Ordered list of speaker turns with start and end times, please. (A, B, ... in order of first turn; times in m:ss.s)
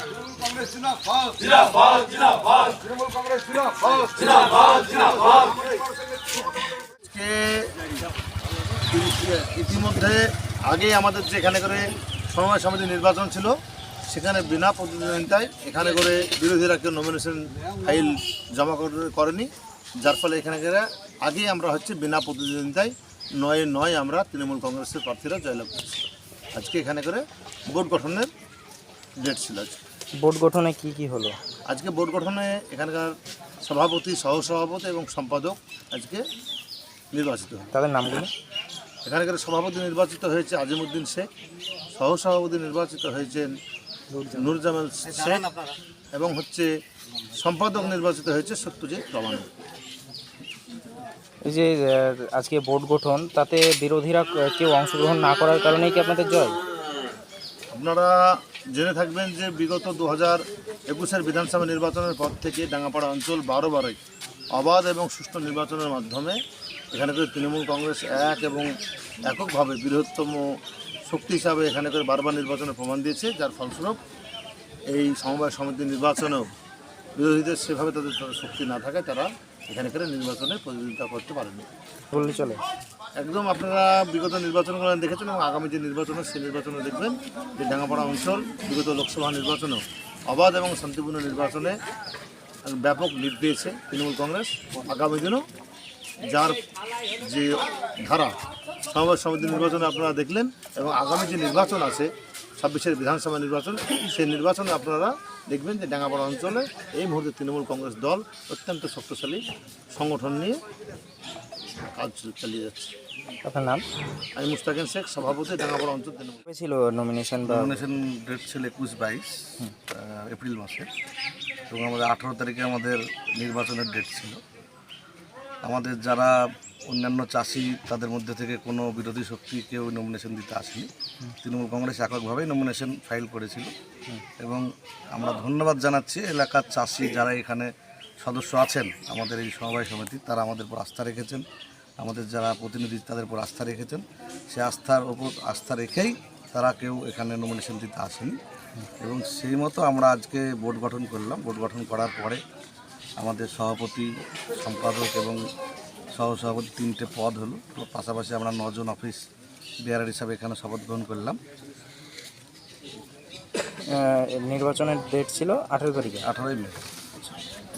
0:07.0-0:07.8 A
0:08.9-0:13.6 A
0:14.1-0:19.5 A
0:20.0-0:28.3 A
0:29.2-0:29.8 A
0:30.2-0:31.4 B
0:31.7-0:36.2 A
0:37.1-0:37.7 A
0:37.7-0:38.3 B
0:39.0-0:41.3 A
0:41.9-0:43.5 A
0:44.1-0:44.6 B
0:44.3-0:45.5 A
0:45.1-0:45.7 C
0:46.1-0:46.7 A
0:47.3-0:49.5 A
0:51.4-0:56.6 B
0:57.7-1:04.0 A
1:04.5-1:06.4 A
1:06.9-1:08.7 A
1:09.2-1:10.5 A
1:11.1-1:14.0 A
1:14.9-1:16.5 A
1:17.2-1:21.7 A
1:22.1-1:22.6 B
1:23.2-1:31.8 A
1:32.6-1:35.4 A
1:36.2-1:36.6 A
1:37.2-1:50.6 A
1:52.0-1:52.9 A
1:53.4-1:53.8 B
1:54.4-1:56.4 A
1:56.5-1:57.8 B
1:57.4-2:00.9 C
2:01.7-2:04.4 C
2:05.6-2:06.4 C
2:06.9-2:10.9 C
2:11.4-2:13.7 C
2:14.4-2:17.7 C
2:18.2-2:21.4 C
2:22.0-2:28.4 C
2:29.0-2:32.4 C
2:33.2-2:35.4 C
2:36.1-2:39.2 C
2:39.8-2:41.4 C
2:43.9-2:46.3 B
2:46.2-2:46.8 C